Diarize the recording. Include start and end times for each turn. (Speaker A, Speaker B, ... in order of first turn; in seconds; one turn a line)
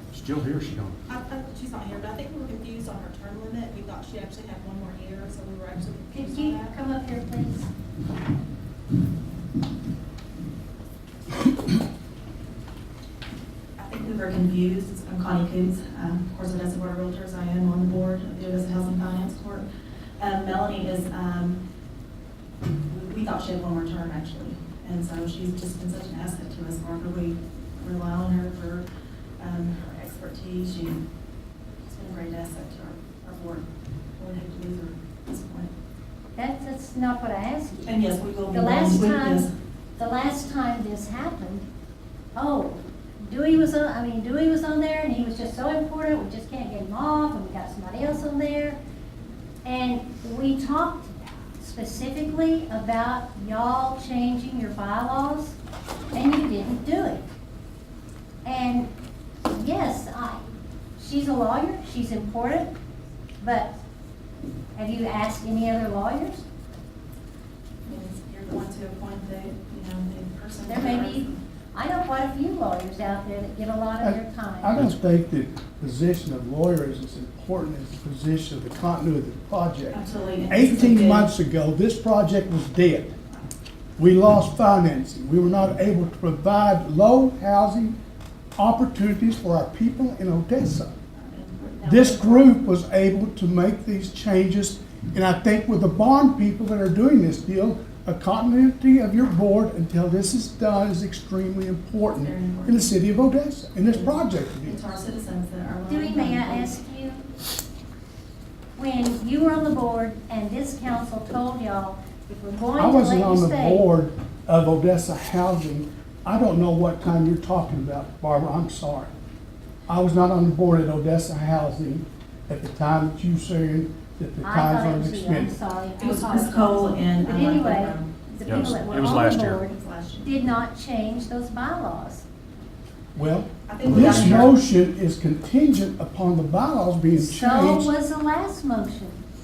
Speaker A: 0.1-1.0
Speaker B: 1.1-6.7
Speaker C: 6.1-7.7
Speaker B: 13.8-19.6
Speaker B: 20.2-21.6
Speaker B: 22.9-28.9
Speaker B: 29.4-31.0
Speaker B: 31.9-35.7
Speaker C: 36.4-37.9
Speaker B: 37.9-39.5
Speaker C: 38.5-41.6
Speaker C: 42.3-48.8
Speaker C: 49.6-55.6
Speaker C: 56.1-57.2
Speaker C: 58.4-58.9
Speaker C: 59.5-60.4
Speaker C: 61.0-62.7
Speaker C: 63.4-63.7
Speaker C: 64.7-66.4
Speaker B: 67.8-71.4
Speaker C: 70.7-74.8
Speaker D: 74.0-83.1
Speaker B: 79.9-81.3
Speaker D: 84.0-88.0
Speaker D: 88.5-90.9
Speaker B: 91.1-92.5
Speaker D: 91.8-104.9
Speaker B: 102.2-102.9
Speaker B: 103.9-106.7
Speaker C: 105.9-107.2
Speaker C: 108.8-113.9
Speaker D: 112.8-119.1
Speaker D: 119.9-125.5
Speaker C: 124.4-132.2
Speaker B: 126.0-128.8
Speaker A: 128.4-129.6
Speaker B: 129.7-130.3
Speaker D: 133.1-137.9
Speaker B: 133.7-134.6
Speaker A: 133.9-134.5
Speaker C: 137.2-139.2